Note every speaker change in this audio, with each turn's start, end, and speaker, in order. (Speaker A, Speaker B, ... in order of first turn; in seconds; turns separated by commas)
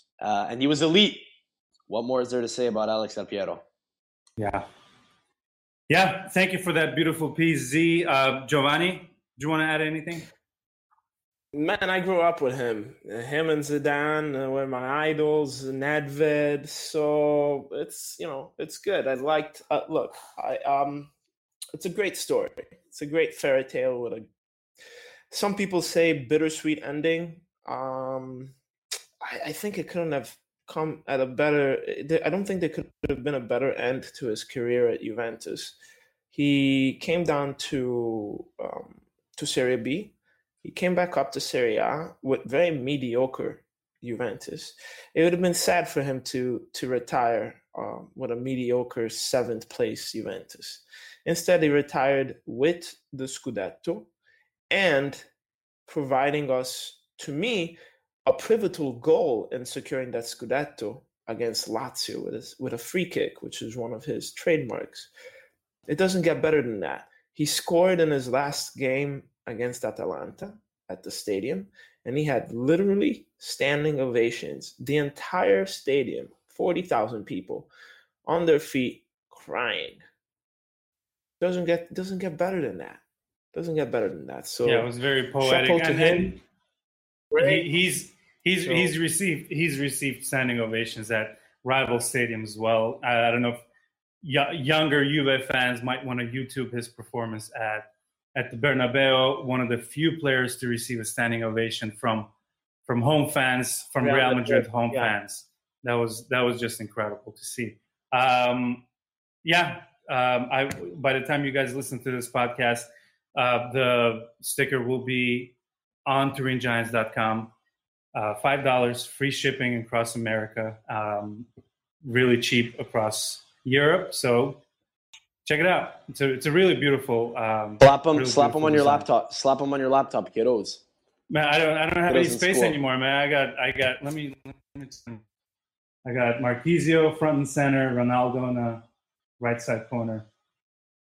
Speaker A: 0.2-1.2, Speaker A: 1.9-3.6, Speaker B: 4.4-4.6, Speaker B: 5.9-10.3, Speaker C: 11.5-21.1, Speaker C: 21.7-24.2, Speaker C: 25.3-28.6, Speaker C: 29.2-35.7, Speaker C: 36.3-54.1, Speaker C: 54.7-55.3, Speaker C: 55.9-65.1, Speaker C: 65.9-77.7, Speaker C: 78.2-80.0, Speaker C: 81.4-83.0, Speaker C: 83.5-84.9, Speaker B: 84.7-86.4, Speaker C: 85.4-86.3, Speaker C: 87.3-87.7, Speaker B: 87.4-93.6, Speaker C: 88.6-88.9, Speaker B: 94.2-102.3, Speaker B: 102.8-108.8, Speaker C: 104.0-105.1, Speaker B: 109.4-115.5, Speaker B: 116.1-117.5, Speaker B: 118.1-121.5, Speaker B: 122.0-124.6, Speaker B: 125.4-129.1, Speaker A: 127.8-130.8, Speaker B: 131.3-135.2, Speaker A: 132.1-132.8, Speaker B: 136.0-138.8, Speaker B: 139.4-140.2